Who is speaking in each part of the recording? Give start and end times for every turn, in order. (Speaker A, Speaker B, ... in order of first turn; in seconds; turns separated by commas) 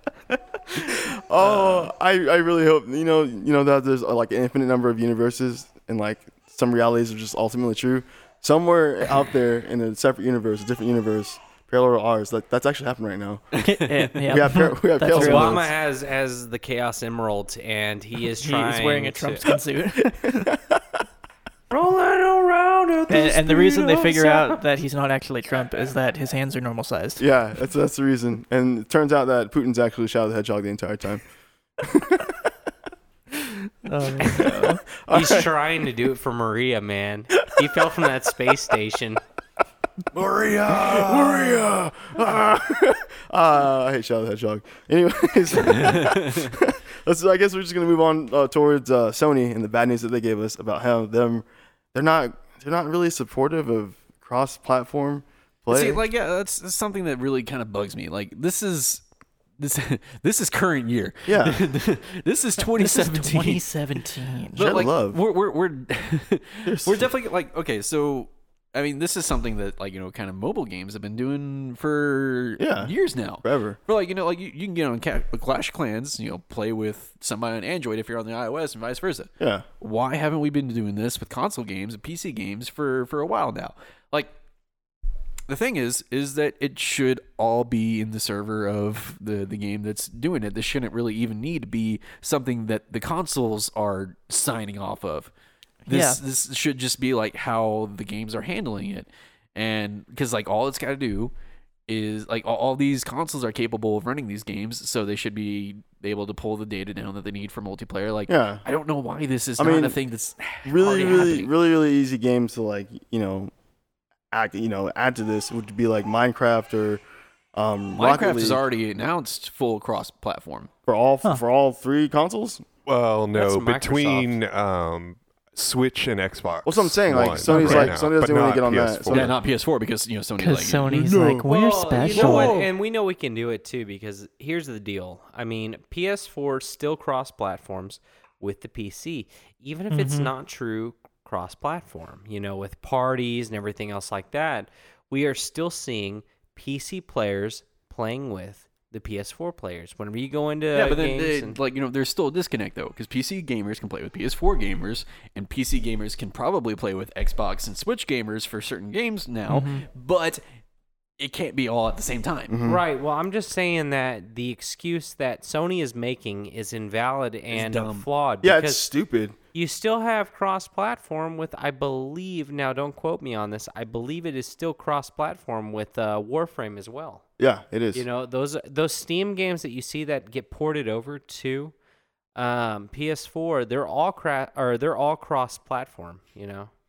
Speaker A: 0.7-13.4, Speaker B: 13.5-14.2, Speaker C: 13.6-15.7, Speaker A: 14.2-15.7, Speaker D: 15.1-19.5, Speaker C: 18.4-20.5, Speaker A: 20.0-21.0, Speaker D: 21.7-24.6, Speaker C: 23.1-27.2, Speaker A: 27.2-31.2, Speaker A: 31.8-32.5, Speaker C: 33.8-34.8, Speaker A: 34.2-35.5, Speaker D: 35.1-39.2, Speaker A: 40.5-56.0, Speaker B: 45.6-46.5, Speaker B: 55.7-59.0, Speaker B: 59.6-63.6, Speaker A: 61.2-61.6, Speaker C: 62.8-64.7, Speaker A: 64.5-65.2, Speaker B: 64.5-79.3, Speaker A: 66.6-67.1, Speaker A: 72.6-73.8, Speaker A: 79.4-79.6, Speaker B: 79.8-84.3, Speaker B: 85.5-95.3, Speaker C: 95.9-96.2, Speaker B: 95.9-101.3, Speaker B: 101.9-111.5, Speaker A: 108.3-108.6, Speaker A: 109.6-110.0, Speaker A: 110.6-113.5, Speaker A: 114.3-117.0, Speaker A: 117.5-118.6, Speaker B: 117.9-120.7, Speaker A: 120.8-122.6, Speaker E: 122.8-129.3, Speaker D: 123.3-124.3, Speaker A: 126.6-129.3, Speaker C: 127.5-127.9, Speaker B: 129.1-131.2, Speaker C: 130.4-132.7, Speaker A: 130.9-131.4, Speaker D: 131.4-151.6, Speaker C: 139.9-140.3, Speaker B: 150.7-160.4, Speaker C: 159.5-159.8, Speaker B: 161.2-162.5, Speaker A: 162.5-162.8, Speaker D: 162.6-168.8, Speaker B: 167.5-168.1, Speaker A: 168.4-169.3, Speaker D: 169.5-177.2, Speaker A: 177.4-178.0, Speaker D: 177.9-181.7, Speaker D: 182.3-186.7